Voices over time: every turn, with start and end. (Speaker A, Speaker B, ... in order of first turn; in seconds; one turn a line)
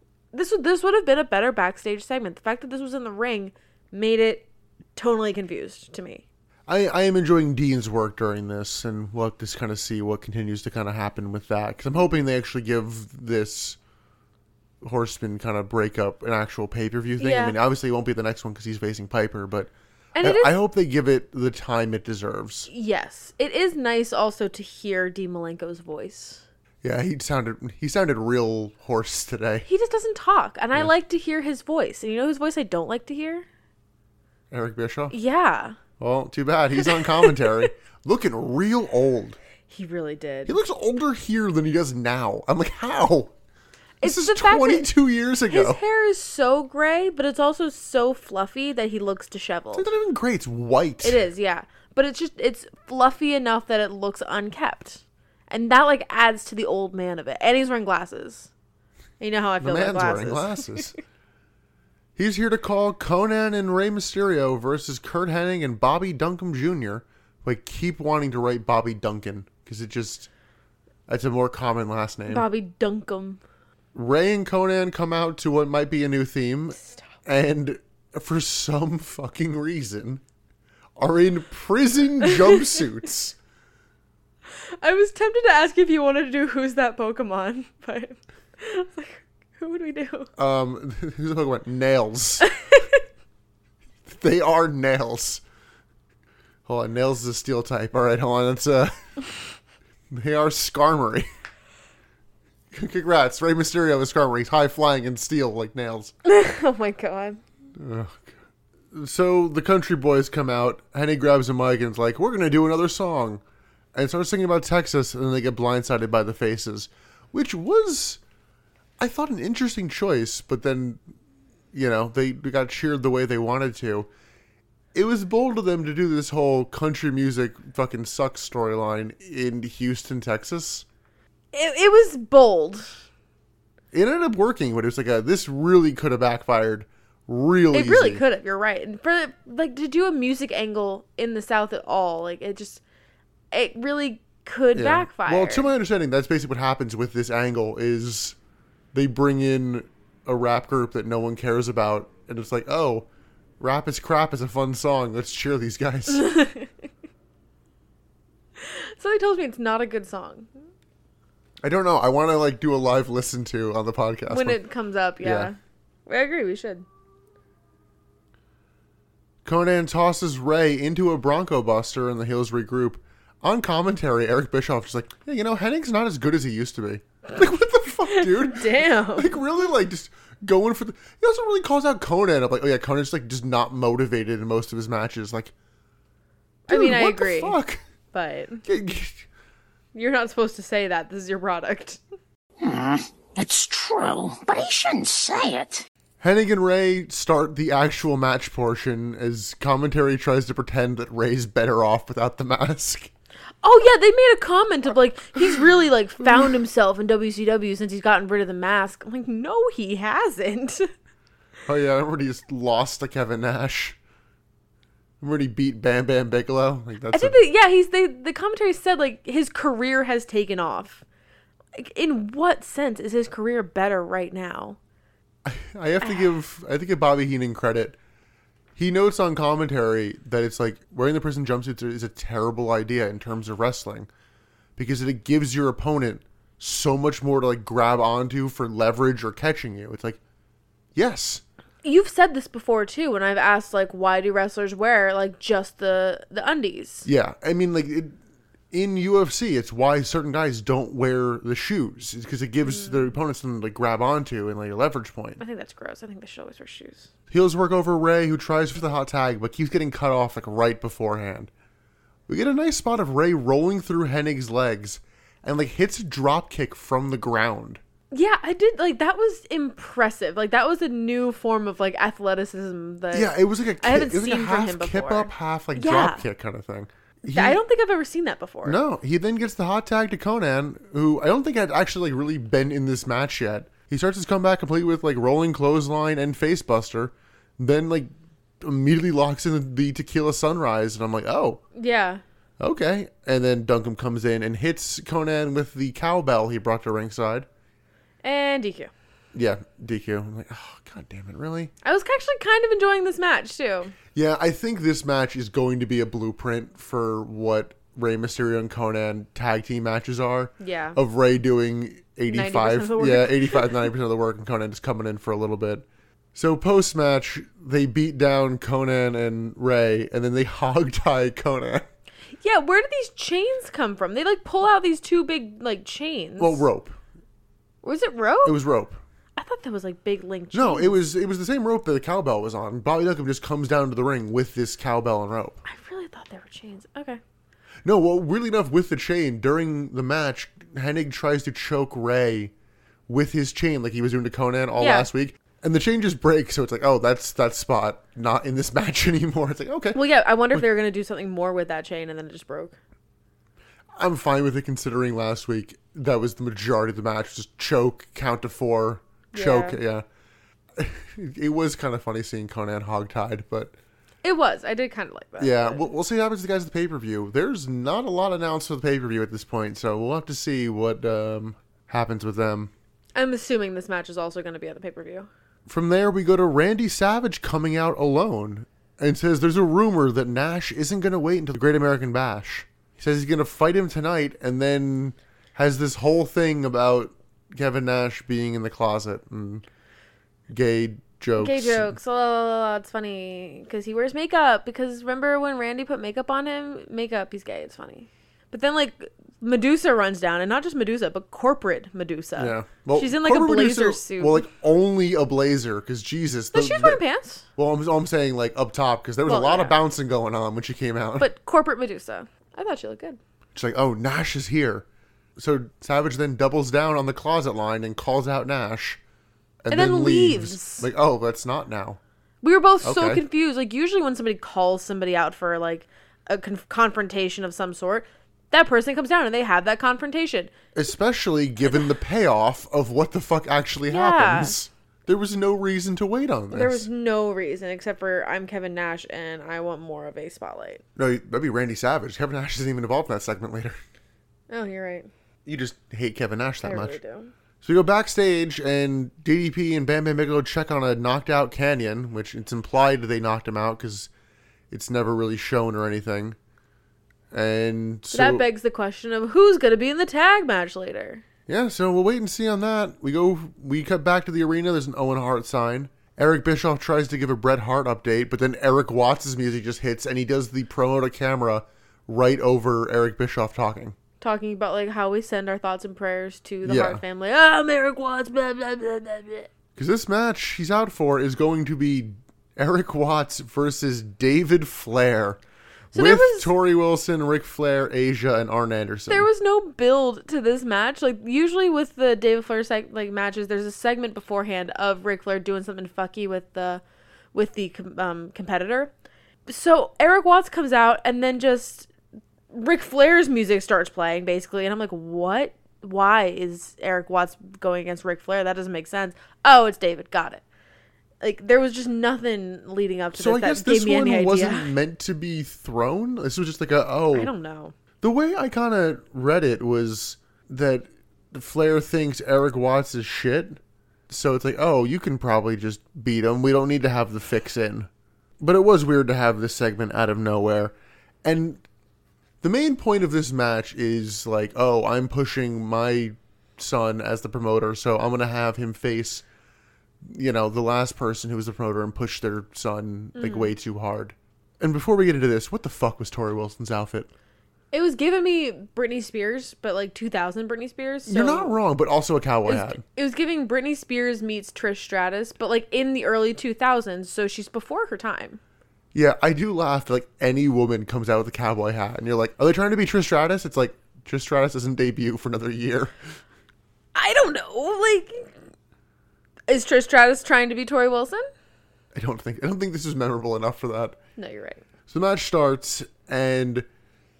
Speaker A: 0.3-6.2
Speaker B: 6.7-13.8
Speaker B: 14.8-22.7
Speaker A: 17.2-17.6
Speaker A: 20.1-20.5
Speaker A: 22.7-26.4
Speaker B: 26.8-29.6
Speaker A: 29.6-33.5
Speaker B: 34.5-35.1
Speaker A: 35.1-35.8
Speaker B: 36.0-39.4
Speaker A: 36.8-37.7
Speaker A: 39.7-40.6
Speaker B: 40.5-43.3
Speaker A: 44.0-44.9
Speaker B: 44.0-45.8
Speaker A: 45.5-49.9
Speaker B: 49.7-51.2
Speaker A: 51.0-58.5
Speaker A: 59.2-60.9
Speaker B: 59.6-60.9
Speaker B: 62.1-70.3
Speaker B: 71.1-72.4
Speaker A: 72.3-73.4
Speaker B: 73.9-80.2
Speaker B: 81.0-83.4
Speaker A: 82.2-82.7
Speaker A: 84.8-90.3
Speaker B: 90.4-92.5
Speaker A: 92.5-93.0
Speaker B: 94.0-95.4
Speaker B: 96.7-98.9
Speaker B: 100.1-101.3
Speaker B: 102.7-106.1
Speaker A: 106.2-107.4
Speaker B: 107.8-108.3
Speaker B: 108.9-113.4
Speaker B: 113.9-118.2
Speaker B: 119.0-121.0
Speaker B: 121.7-124.1
Speaker B: 124.9-130.9
Speaker A: 131.5-133.0
Speaker B: 133.9-138.2
Speaker A: 137.7-142.8
Speaker A: 143.5-145.7
Speaker B: 144.7-148.4
Speaker B: 148.9-153.1
Speaker B: 153.6-156.3
Speaker A: 156.1-156.7
Speaker A: 158.6-160.5
Speaker B: 161.6-164.6
Speaker A: 164.3-166.9
Speaker B: 165.2-165.5
Speaker B: 169.4-185.5
Speaker A: 178.1-179.3
Speaker A: 186.7-187.6
Speaker B: 186.7-187.8
Speaker A: 188.1-188.6
Speaker B: 188.6-189.2
Speaker A: 189.9-192.0
Speaker C: 192.6-195.9
Speaker B: 196.2-203.1
Speaker A: 203.6-210.9
Speaker B: 206.2-206.5
Speaker B: 211.7-214.0
Speaker B: 215.2-217.4
Speaker A: 217.1-221.0
Speaker A: 221.7-224.8
Speaker B: 225.4-228.0
Speaker B: 228.8-234.1
Speaker B: 234.8-240.2
Speaker B: 240.9-241.4
Speaker A: 241.8-247.1
Speaker B: 247.0-248.2
Speaker B: 248.7-255.4
Speaker A: 252.6-253.1
Speaker A: 255.4-257.1
Speaker B: 257.3-261.5
Speaker B: 262.3-267.8
Speaker A: 268.1-276.2
Speaker B: 273.1-277.6
Speaker A: 277.3-278.8
Speaker B: 278.6-288.1
Speaker B: 288.6-291.6
Speaker A: 291.7-292.2
Speaker B: 292.6-297.5
Speaker A: 298.2-298.9
Speaker B: 299.3-301.7
Speaker A: 301.8-303.9
Speaker B: 304.1-321.9
Speaker A: 310.6-311.0
Speaker A: 312.3-313.9
Speaker A: 322.4-326.6
Speaker B: 326.4-327.0
Speaker A: 327.8-328.6
Speaker B: 328.4-329.0
Speaker A: 329.4-330.9
Speaker B: 330.5-335.6
Speaker A: 335.6-337.2
Speaker B: 337.8-342.5
Speaker B: 343.1-350.0
Speaker A: 344.8-345.1
Speaker A: 349.9-352.8
Speaker B: 354.0-360.0
Speaker A: 359.3-359.8
Speaker B: 360.8-363.7
Speaker A: 364.2-365.9
Speaker B: 365.4-372.7
Speaker A: 373.1-375.3
Speaker B: 375.7-389.6
Speaker B: 390.5-391.9
Speaker A: 391.4-404.4
Speaker B: 402.4-407.0
Speaker A: 406.5-407.4
Speaker B: 407.6-411.3
Speaker A: 409.2-409.8
Speaker A: 411.2-413.2
Speaker B: 413.5-419.0
Speaker B: 419.6-422.0
Speaker A: 419.7-420.9
Speaker A: 422.4-430.5
Speaker B: 422.8-423.2
Speaker B: 430.7-436.9
Speaker A: 433.9-434.6
Speaker A: 436.5-440.8
Speaker B: 440.9-443.8
Speaker A: 444.5-445.1
Speaker B: 445.4-447.0
Speaker A: 446.6-447.3
Speaker B: 447.6-454.1
Speaker B: 454.7-456.4
Speaker B: 457.3-458.4
Speaker A: 458.1-461.2
Speaker B: 461.5-473.9
Speaker A: 474.2-479.5
Speaker B: 476.6-477.0
Speaker B: 479.8-485.4
Speaker A: 485.9-486.5
Speaker B: 485.9-489.3
Speaker A: 489.1-496.8
Speaker A: 497.3-498.9
Speaker A: 499.5-501.9
Speaker A: 502.5-510.4
Speaker A: 511.2-514.7
Speaker B: 513.1-517.3
Speaker A: 517.1-517.7
Speaker B: 518.0-527.9
Speaker B: 528.4-531.6
Speaker B: 532.4-539.2
Speaker B: 540.0-547.1
Speaker A: 543.1-543.5
Speaker A: 547.7-551.6
Speaker B: 551.0-552.8
Speaker A: 552.5-558.4
Speaker B: 558.9-566.1
Speaker A: 566.9-568.3
Speaker A: 569.5-571.3
Speaker B: 571.9-574.0
Speaker A: 574.2-574.6
Speaker B: 574.9-576.6